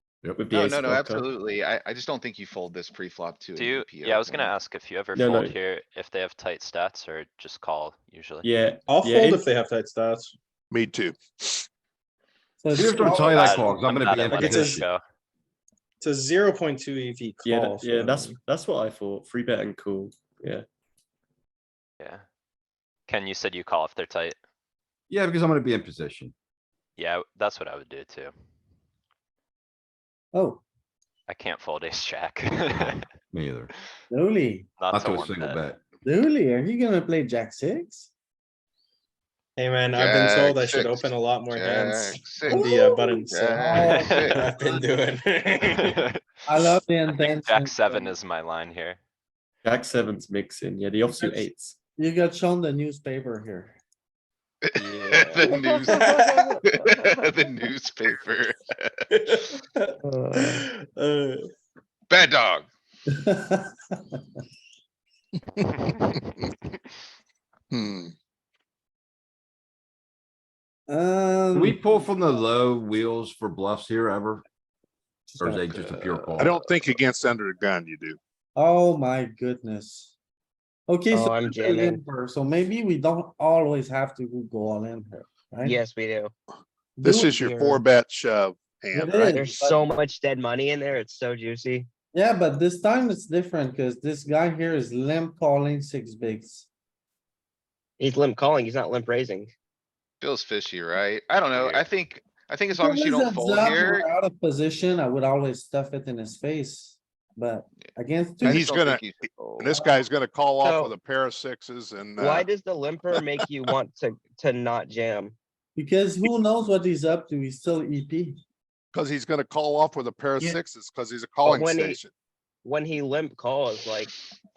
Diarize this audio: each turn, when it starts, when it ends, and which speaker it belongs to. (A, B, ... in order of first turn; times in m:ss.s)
0:00.3-0:01.3 A
0:00.5-0:04.5 B
0:03.5-0:08.5 C
0:05.1-0:05.6 A
0:08.4-0:09.4 A
0:08.9-0:10.3 D
0:10.7-0:11.6 E
0:12.6-0:13.8 F
0:12.7-0:14.8 G
0:13.1-0:15.0 C
0:14.3-0:14.9 D
0:16.0-0:18.4 D
0:17.4-0:20.6 A
0:23.1-0:24.4 C
0:25.1-0:26.3 G
0:27.0-0:28.3 C
0:30.3-0:30.6 F
0:31.3-0:33.0 C
0:33.3-0:33.7 G
0:34.1-0:34.7 F
0:34.8-0:35.6 C
0:34.9-0:35.8 G
0:36.0-0:38.1 F
0:39.6-0:46.0 D
0:39.9-0:42.7 B
0:42.5-0:45.0 F
0:43.2-0:44.4 B
0:43.8-0:44.4 C
0:45.6-0:46.2 C
0:46.4-0:48.2 F
0:47.1-0:49.0 C
0:49.6-0:51.7 A
0:51.1-0:51.4 D
0:52.0-0:53.8 F
0:54.6-0:59.4 B
0:54.8-0:55.2 C
0:55.4-0:56.6 D
0:59.3-1:01.4 D
1:02.1-1:02.7 B
1:03.1-1:03.7 F
1:07.7-1:08.1 E
1:10.9-1:11.8 F
1:11.5-1:14.4 G
1:15.3-1:15.9 F
1:15.4-1:16.6 G
1:16.4-1:18.2 E
1:18.6-1:20.1 F
1:20.9-1:25.8 F
1:21.1-1:22.0 H
1:25.6-1:26.3 H
1:27.0-1:27.5 F
1:27.0-1:29.6 E
1:27.5-1:27.7 H
1:28.9-1:29.8 F
1:29.2-1:31.9 H
1:32.1-1:36.7 F
1:38.0-1:39.5 H
1:40.2-1:44.1 B
1:41.5-1:41.9 C
1:42.7-1:48.7 F
1:48.4-1:49.8 B
1:48.4-1:52.5 E
1:50.6-1:50.9 H
1:52.2-1:55.4 H
1:55.8-1:58.4 F
1:58.9-2:02.1 E
2:01.4-2:02.0 H
2:02.6-2:04.1 H